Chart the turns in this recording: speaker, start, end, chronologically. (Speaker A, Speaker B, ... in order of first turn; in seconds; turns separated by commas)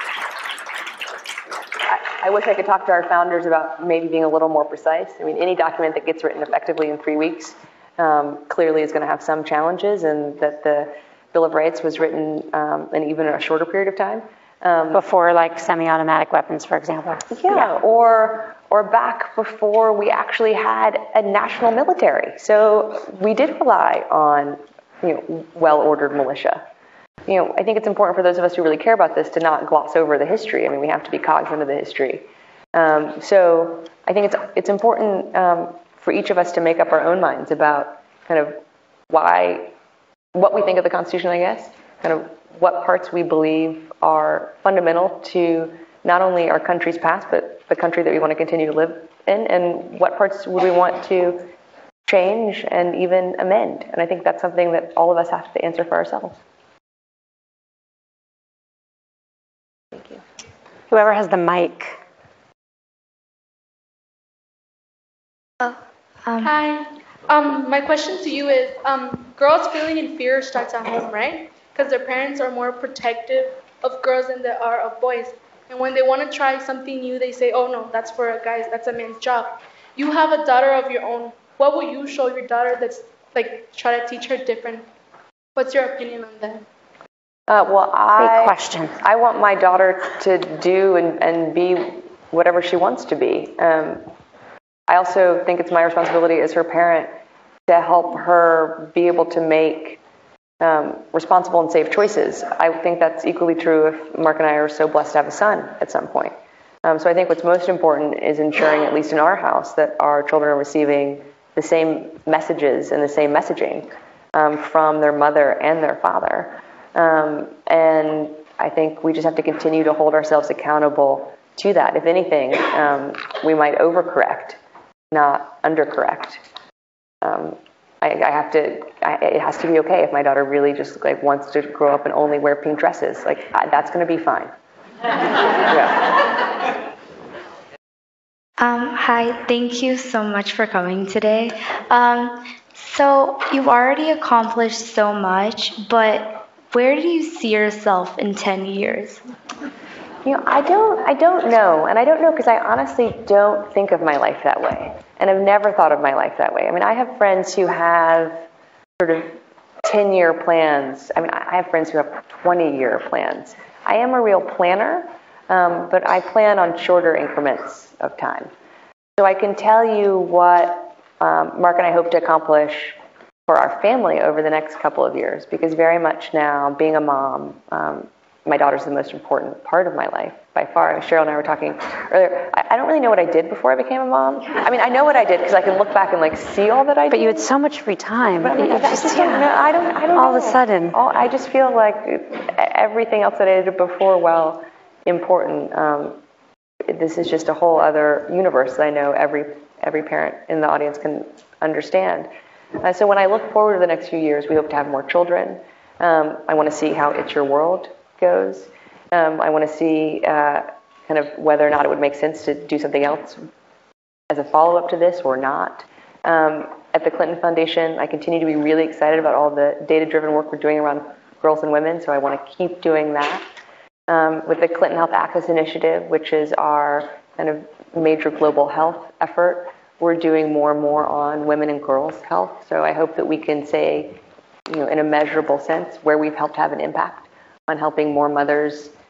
Speaker A: 1.8-15.0, Speaker B: 14.9-17.2, Speaker A: 17.3-26.6, Speaker A: 27.3-39.7, Speaker A: 40.3-51.5, Speaker A: 52.0-56.4, Speaker B: 60.9-62.0, Speaker C: 65.6-66.5, Speaker D: 66.5-66.8, Speaker D: 67.4-79.5, Speaker D: 80.0-84.8, Speaker D: 85.6-86.5, Speaker A: 87.5-94.1, Speaker B: 88.2-89.0, Speaker A: 94.9-97.1, Speaker A: 97.7-100.0, Speaker A: 100.6-124.6, Speaker A: 125.1-126.4, Speaker A: 127.2-134.5, Speaker A: 135.5-136.2, Speaker C: 138.6-149.2, Speaker A: 150.2-158.5, Speaker A: 159.0-168.5, Speaker A: 169.2-187.5, Speaker B: 187.1-189.5, Speaker A: 188.4-196.2, Speaker B: 190.2-191.0, Speaker A: 196.9-213.5, Speaker A: 214.3-223.5, Speaker A: 224.1-238.9